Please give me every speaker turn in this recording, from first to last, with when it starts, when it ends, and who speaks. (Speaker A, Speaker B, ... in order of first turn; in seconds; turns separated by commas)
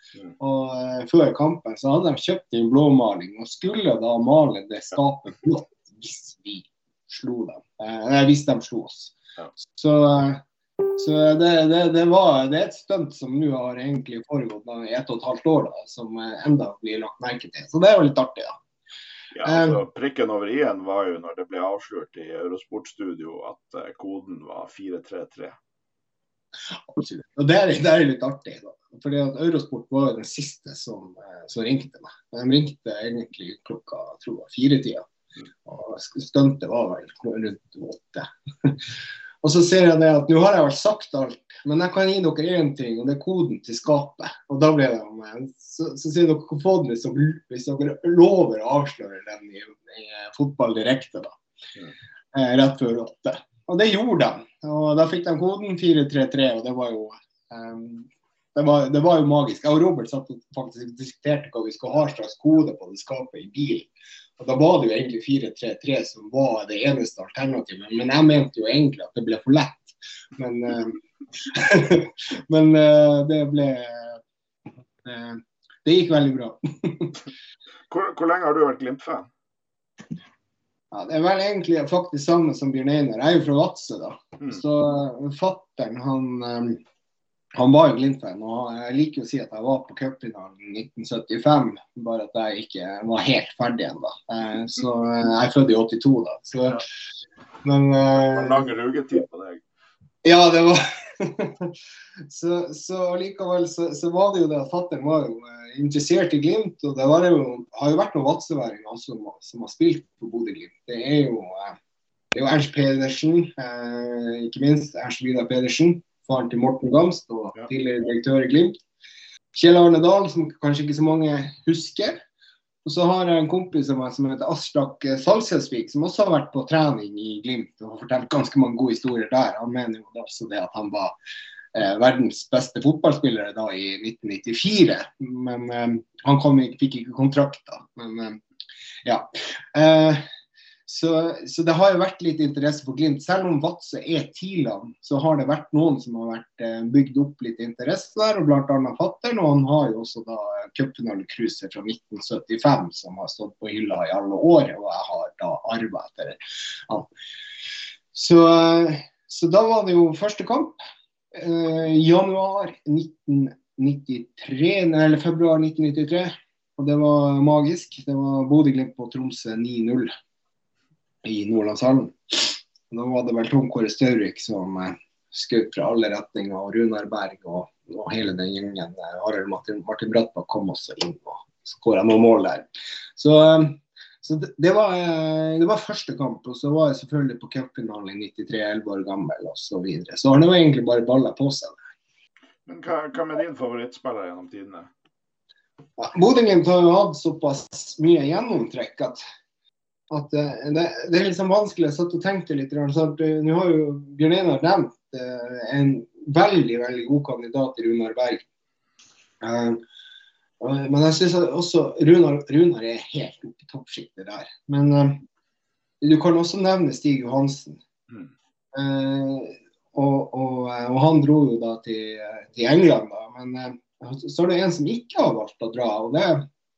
Speaker A: 0.4-9.1, Speaker A: 9.7-10.4, Speaker A: 11.0-18.5, Speaker B: 19.3-25.5, Speaker A: 19.4-19.8, Speaker A: 26.9-35.0, Speaker A: 35.6-38.8, Speaker A: 39.4-51.4, Speaker A: 52.3-74.2, Speaker A: 75.0-77.2, Speaker B: 77.9-79.3, Speaker A: 80.9-86.8, Speaker A: 87.5-96.8, Speaker A: 97.6-98.7, Speaker B: 98.1-99.6, Speaker A: 100.2-101.7, Speaker A: 102.3-111.8, Speaker A: 112.3-118.8, Speaker A: 119.5-122.2, Speaker A: 122.8-131.1, Speaker A: 131.7-138.4, Speaker A: 139.0-140.2, Speaker A: 140.8-157.1, Speaker A: 158.1-160.8, Speaker A: 161.3-170.1, Speaker A: 171.2-191.8, Speaker B: 192.7-194.9, Speaker A: 196.0-199.2, Speaker A: 200.1-208.4, Speaker A: 209.4-209.8, Speaker A: 210.6-215.2, Speaker A: 216.0-217.8, Speaker A: 218.7-226.4